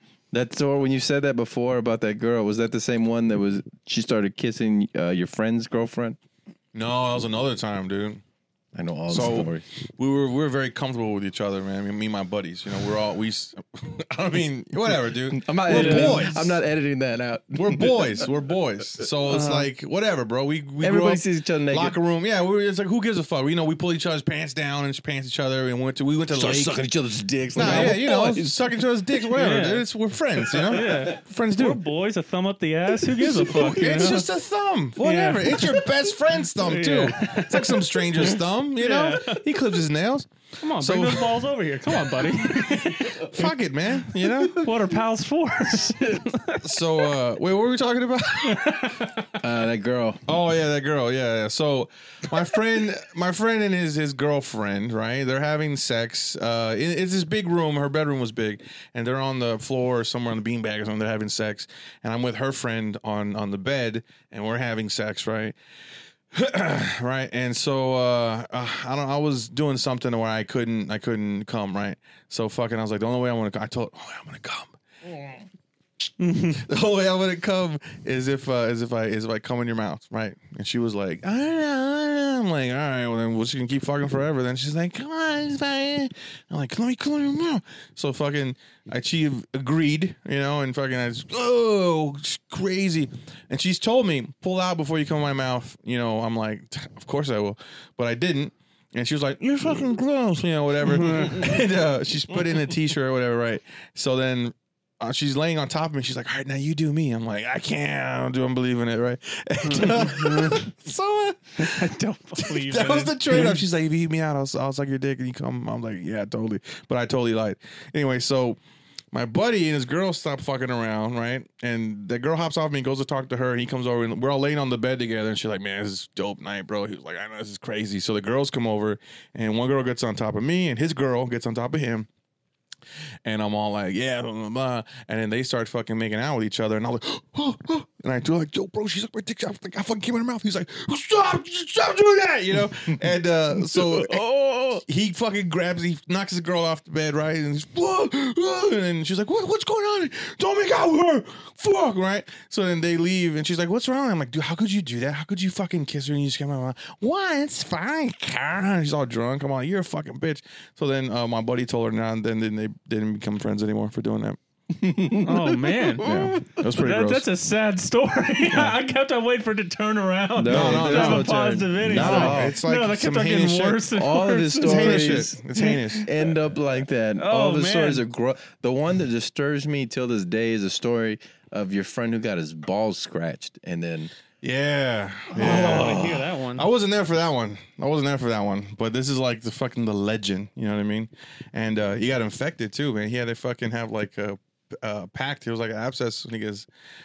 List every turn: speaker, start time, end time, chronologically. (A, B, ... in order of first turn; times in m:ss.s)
0:00.3-0:06.2 A
0:06.7-0:08.2 B
0:08.7-0:09.6 A
0:09.1-0:16.6 B
0:15.3-0:18.3 A
0:15.7-0:16.3 C
0:17.5-0:26.8 B
0:19.3-0:19.7 C
0:20.8-0:22.0 A
0:26.3-0:28.8 A
0:27.6-0:31.8 B
0:27.6-0:28.0 C
0:29.3-0:29.8 C
0:30.5-0:34.3 C
0:30.5-0:31.2 A
0:33.2-0:41.4 B
0:35.0-0:39.4 C
0:40.6-0:47.1 C
0:42.2-0:45.0 B
0:46.6-0:49.0 B
0:48.4-0:49.3 C
0:49.4-0:50.2 A
0:50.3-1:05.6 B
1:06.3-1:15.4 B
1:16.2-1:16.7 C
1:16.5-1:58.6 B
1:40.8-1:41.6 C
1:49.6-1:50.7 C
1:51.6-1:53.6 C
1:59.1-2:12.1 B
2:13.2-2:24.3 B
2:23.5-2:24.8 A
2:24.8-2:44.4 B
2:44.7-2:46.6 A
2:45.2-2:46.1 C
2:46.0-2:47.3 B
2:46.6-2:56.0 C
2:50.3-2:52.6 A
2:50.5-2:53.9 B
2:53.9-3:04.1 A
2:54.6-2:56.1 B
2:57.2-2:58.0 C
3:04.4-3:16.7 B
3:05.3-3:06.7 C